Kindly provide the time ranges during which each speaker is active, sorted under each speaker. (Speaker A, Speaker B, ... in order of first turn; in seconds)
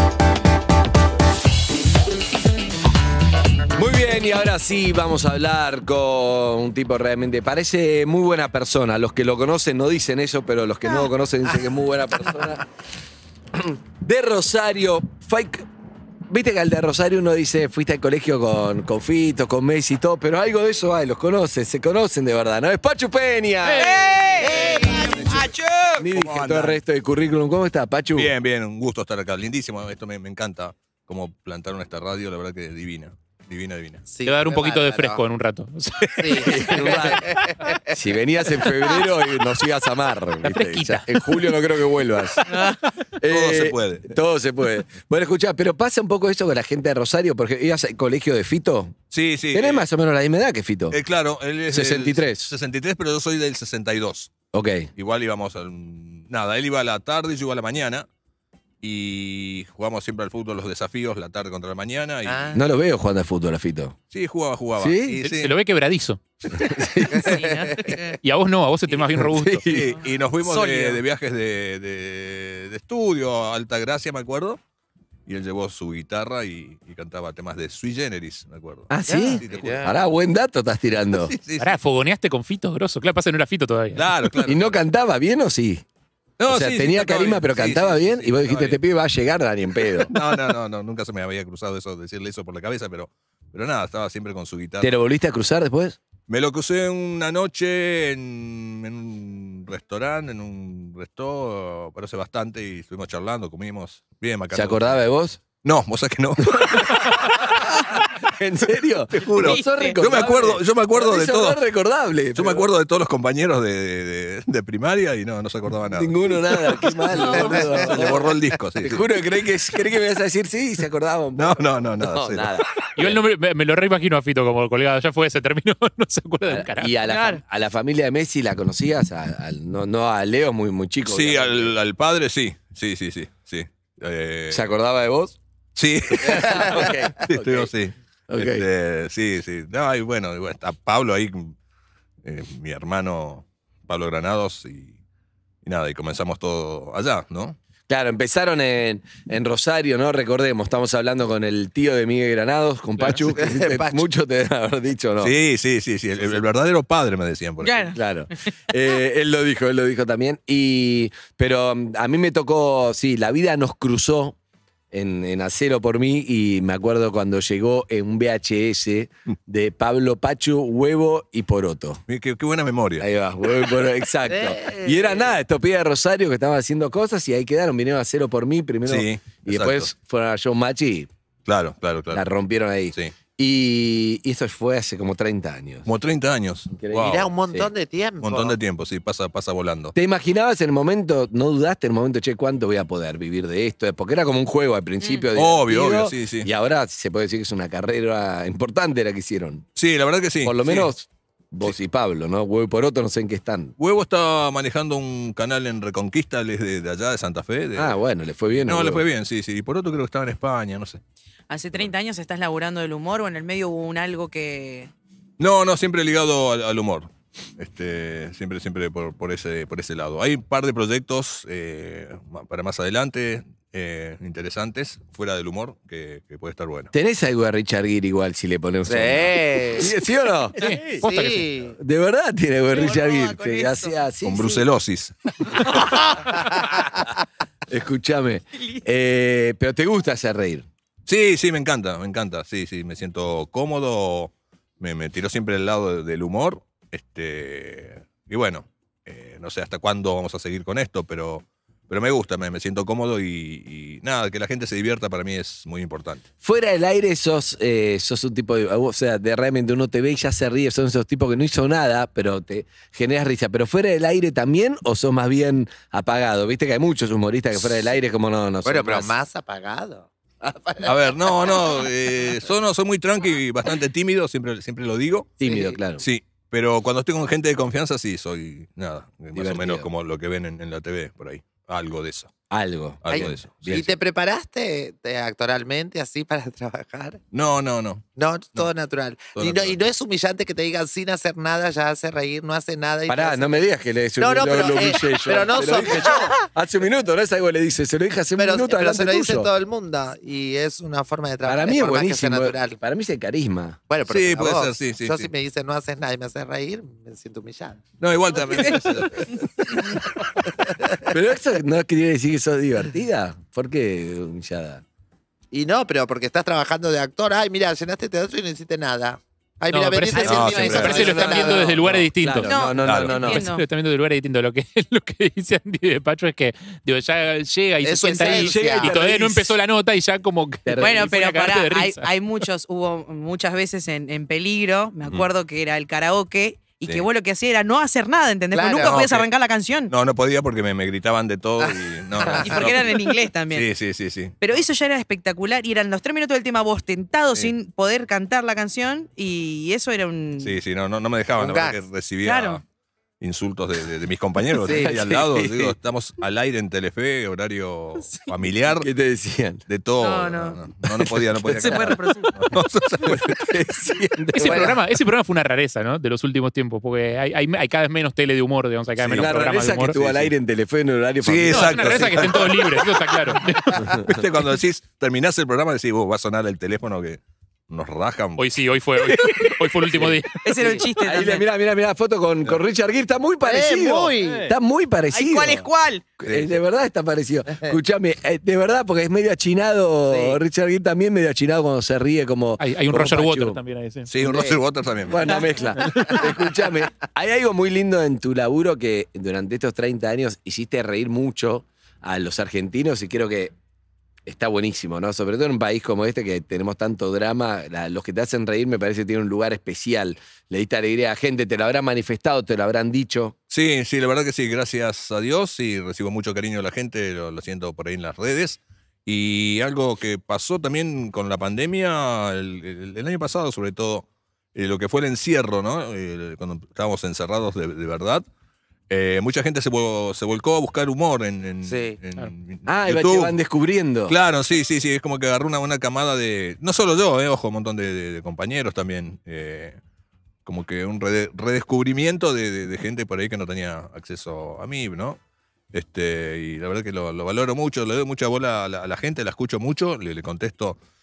Speaker A: 3.7-12.6, 13.5-15.7, 16.3-23.9, 26.0-28.3, 36.4-37.2, 37.9-42.4, 43.2-49.0, 49.5-51.0, 51.7-52.5, 54.5-54.9, 62.5-64.0, 64.8-65.2, 66.5-67.4, 69.2-70.0, 78.9-81.3, 84.4-85.8, 86.5-90.1, 94.8-96.0, 104.5-105.4, 106.4-107.5, 108.2-112.7, 115.9-123.2, 126.5-131.7, 134.5-135.4, 136.1-137.7, 138.3-138.7, 147.9-155.3, 157.9-164.3, 164.9-172.0, 173.0-181.1, 182.1-185.9, 186.7-187.7, 189.9-199.7, 200.4-203.7, 207.8-209.0, 226.9-230.6, 231.8-234.6, 237.7-240.7, 256.4-269.1, 275.4-276.0, 279.3-279.9, 282.5-283.9, 293.1-299.5, 301.4-303.8, 311.1-314.8, 321.1-323.4, 328.2-329.5, 330.6-331.1, 354.6-355.8, 358.8-359.6, 361.3-362.0, 363.0-364.8, 369.0-372.3, 381.0-385.6, 386.2-393.6, 395.1-403.5, 404.2-413.3, 432.7-434.1
Speaker B: 23.7-26.0, 42.5-42.8, 67.1-68.2, 70.4-71.0, 109.4-110.0, 117.1-117.6, 127.0-127.4, 157.6-158.5, 195.0-195.3, 211.5-214.9, 232.7-233.9, 235.5-235.9, 320.1-321.5, 322.4-323.6, 330.8-339.9, 342.4-343.7, 344.4-350.6, 352.2-352.6, 360.0-360.6, 361.5-362.3, 380.4-381.4, 385.1-386.0
Speaker C: 24.4-25.4, 34.1-35.2, 36.1-37.9, 62.2-62.6, 67.2-67.9, 79.1-79.9, 153.1-154.0, 174.2-175.3, 187.0-188.6, 228.8-229.9, 230.6-231.7, 236.7-237.0, 268.6-271.5, 275.4-275.7, 283.1-287.2, 288.2-293.5, 294.2-296.4, 298.4-302.8, 303.9-307.8, 310.7-311.0, 315.5-321.9, 327.8-328.9, 338.5-339.0, 341.6-342.7, 351.4-351.8, 354.6-354.9, 364.4-364.7, 383.4-384.5, 390.1-390.4, 394.2-394.6, 431.6-432.0
Speaker D: 26.0-26.8, 28.1-34.0, 43.2-44.1, 49.1-49.9, 50.9-54.3, 55.0-58.1, 58.8-62.6, 64.1-65.5, 69.7-74.6, 75.3-79.9, 81.2-81.8, 83.9-84.8, 86.4-88.8, 90.1-94.9, 96.3-105.0, 105.6-107.5, 109.1-111.6, 112.3-116.8, 117.4-119.3, 121.4-122.6, 131.1-134.7, 135.8-141.5, 142.2-145.0, 145.6-147.6, 155.2-157.9, 172.1-173.1, 178.8-179.9, 181.4-182.3, 185.8-187.3, 188.2-189.9, 195.3-196.5, 199.8-200.9, 203.8-207.9, 208.6-211.0, 215.4-226.9, 234.2-235.7, 241.1-256.2, 270.8-275.4, 276.0-282.3, 283.0-283.9, 287.3-288.7, 289.3-289.8, 304.1-305.3, 308.0-309.8, 320.2-321.1, 322.8-323.2, 338.8-339.2, 339.9-343.0, 343.5-344.6, 350.4-352.6, 353.2-358.9, 359.7-363.6, 369.0-369.4, 369.9-370.3, 371.2-372.9, 374.1-378.4, 386.2-386.5, 394.1-395.3, 413.5-428.2, 428.9-433.3, 434.1-439.8, 440.4-445.2, 445.7-450.8
Speaker E: 34.2-37.1, 40.4-41.5, 65.2-66.2, 68.2-69.7, 81.6-84.0, 123.0-126.9, 230.6-231.5, 319.7-322.5, 323.1-332.1, 364.4-370.0, 371.5-373.8, 378.4-380.4, 392.6-394.1, 395.8-396.1